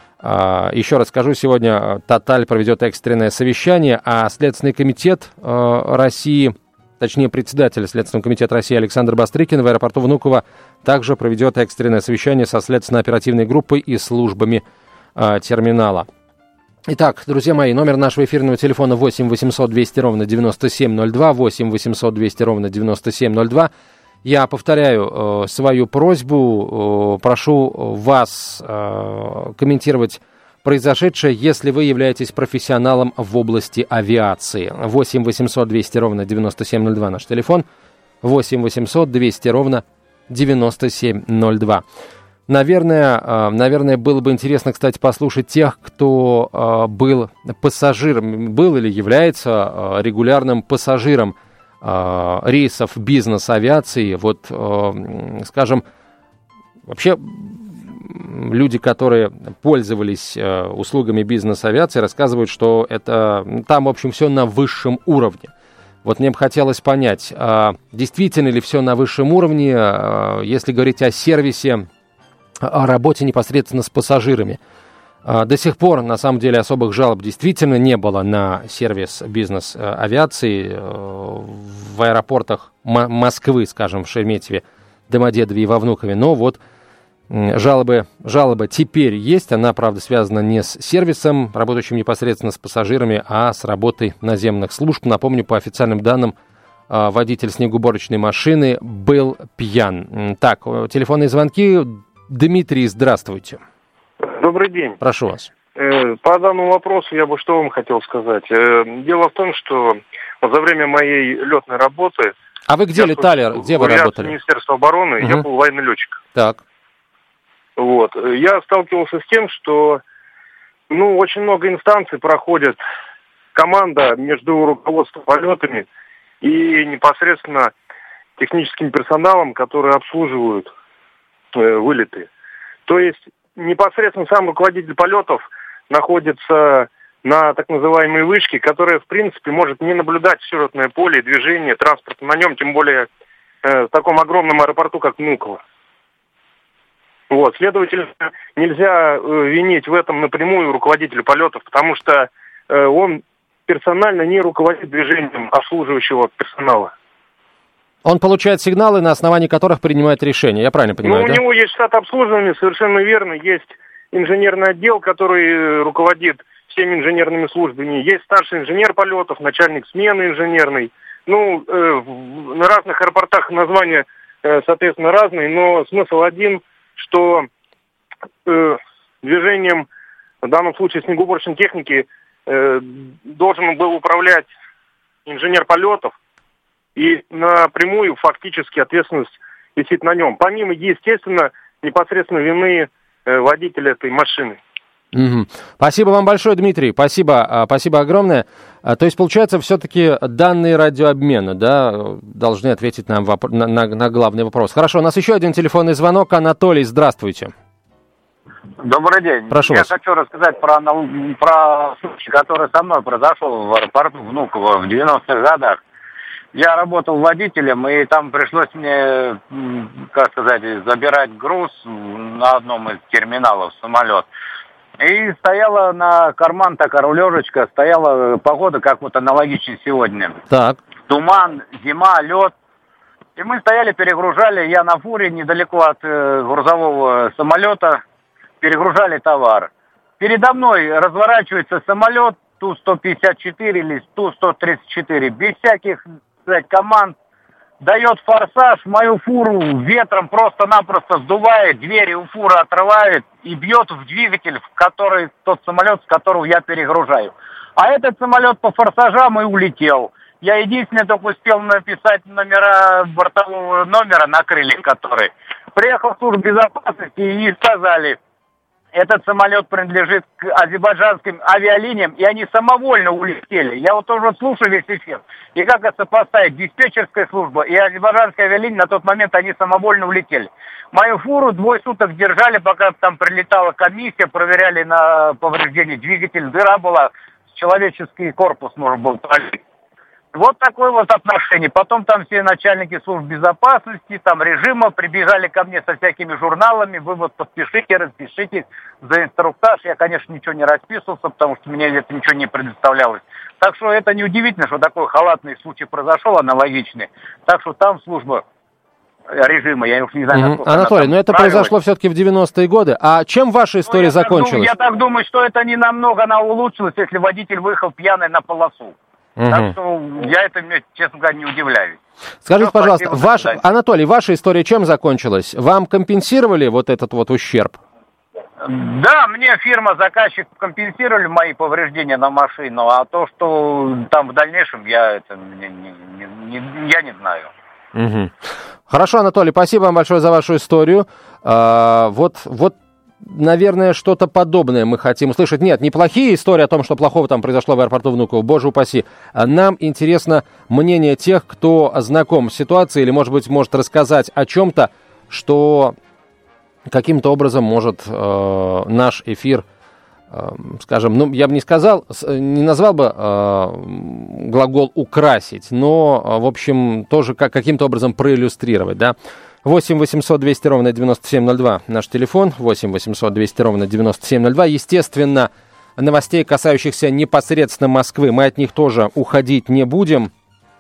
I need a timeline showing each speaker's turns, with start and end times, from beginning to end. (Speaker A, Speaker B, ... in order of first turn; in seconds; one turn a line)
Speaker A: 0.2-14.6
Speaker A: 15.2-16.1
Speaker A: 16.9-23.7
Speaker A: 24.2-37.6
Speaker A: 38.2-41.8
Speaker A: 42.5-55.8
Speaker A: 56.9-65.5
Speaker A: 66.0-71.9
Speaker A: 72.6-74.6
Speaker A: 75.2-86.6
Speaker A: 87.3-96.3
Speaker A: 96.9-103.6
Speaker B: 104.2-105.0
Speaker A: 105.0-105.5
Speaker B: 105.8-112.3
Speaker A: 112.7-114.4
Speaker B: 113.0-116.2
Speaker A: 115.2-115.5
Speaker A: 116.3-116.6
Speaker B: 117.8-120.0
Speaker B: 120.9-122.8
Speaker B: 123.5-125.9
Speaker B: 126.4-127.7
Speaker B: 128.4-130.7
Speaker B: 131.5-132.3
Speaker B: 132.9-143.1
Speaker B: 143.6-145.6
Speaker B: 147.3-156.9
Speaker A: 158.1-161.4
Speaker B: 161.0-177.5
Speaker B: 178.5-179.9
Speaker B: 180.4-184.5
Speaker B: 185.3-186.1
Speaker B: 187.0-194.6
Speaker A: 195.1-207.5
Speaker C: 208.8-215.8
Speaker A: 209.5-209.9
Speaker C: 216.5-224.3
Speaker C: 225.0-230.4
Speaker A: 230.5-230.8
Speaker C: 231.1-232.5
Speaker C: 233.4-238.0
Speaker C: 238.6-247.2
Speaker C: 247.8-268.2
Speaker C: 268.9-289.6
Speaker C: 290.3-308.4
Speaker C: 309.3-311.7
Speaker A: 310.3-314.7
Speaker C: 313.9-318.9
Speaker A: 319.4-319.7
Speaker C: 319.5-322.0
Speaker A: 322.5-327.8
Speaker C: 322.6-323.6
Speaker C: 328.6-337.5
Speaker A: 337.9-338.3
Speaker A: 338.9-355.9
Speaker A: 356.9-359.6
Speaker A: 360.3-380.3